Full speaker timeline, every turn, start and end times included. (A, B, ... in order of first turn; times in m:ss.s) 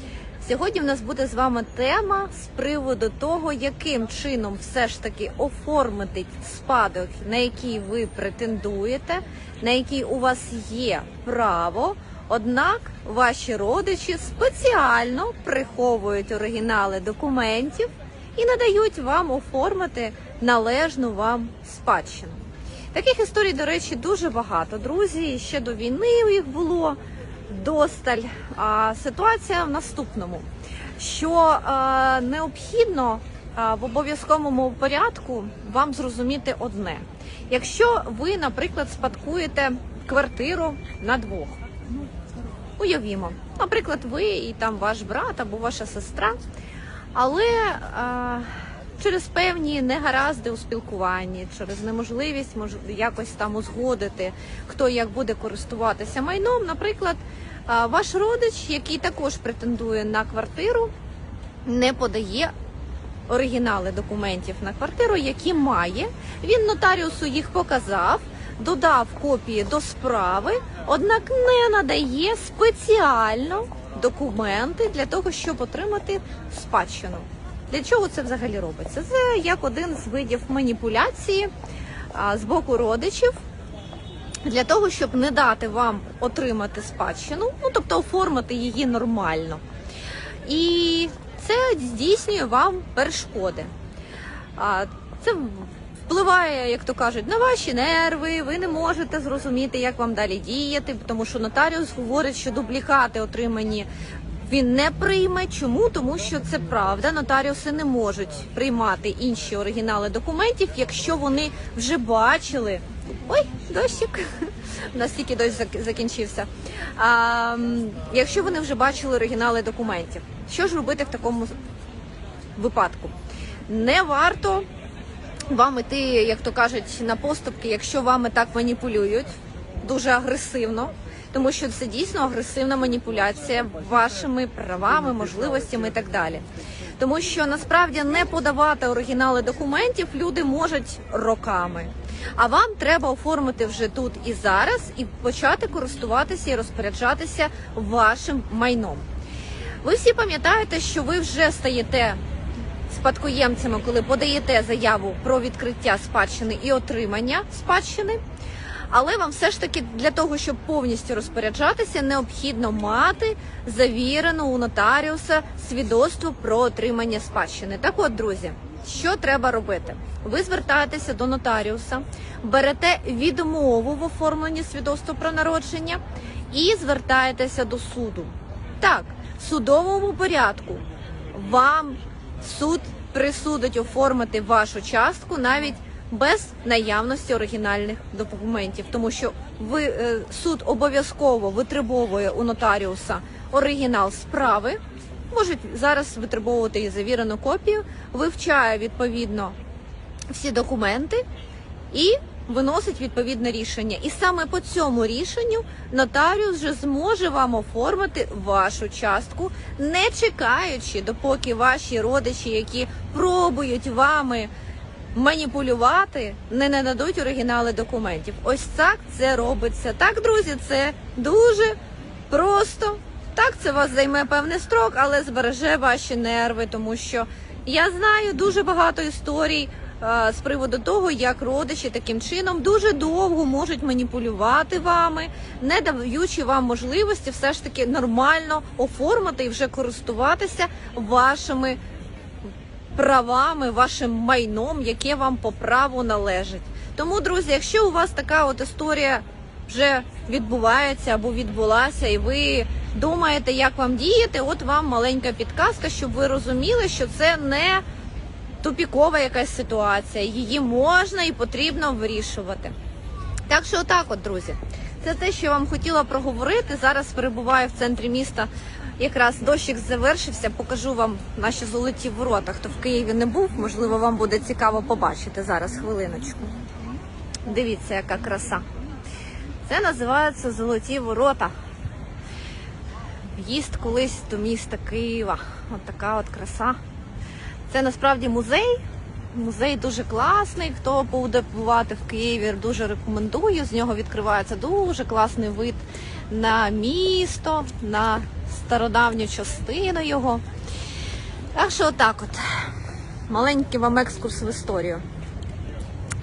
0:00.4-0:22.4 A
0:22.9-0:30.5 A
0:31.0-0:41.6 A
0:42.8-0:46.4 A
0:47.1-1:00.9 A
1:01.6-1:02.5 A
1:03.3-1:21.5 A
1:22.1-1:23.3 A
1:24.4-1:29.6 A
1:30.4-1:33.7 A
1:34.6-1:43.9 A
1:44.4-2:01.6 A
2:02.6-2:03.2 A
2:03.7-2:04.7 A
2:05.5-2:16.4 A
2:17.0-2:29.0 A
2:29.8-2:32.2 A
2:32.9-2:38.2 A
2:38.9-3:14.8 A
3:15.3-3:19.6 A
3:20.3-3:21.2 A
3:21.9-3:34.5 A
3:35.1-3:41.8 A
3:42.3-4:01.8 A
4:03.0-4:17.8 A
4:18.6-4:22.7 A
4:23.5-4:36.5 A
4:37.5-4:38.6 A
4:39.7-4:41.5 A
4:43.3-4:46.8 A
4:47.7-4:48.8 A
4:49.3-5:00.4 A
5:01.6-5:02.4 A
5:03.3-5:05.0 A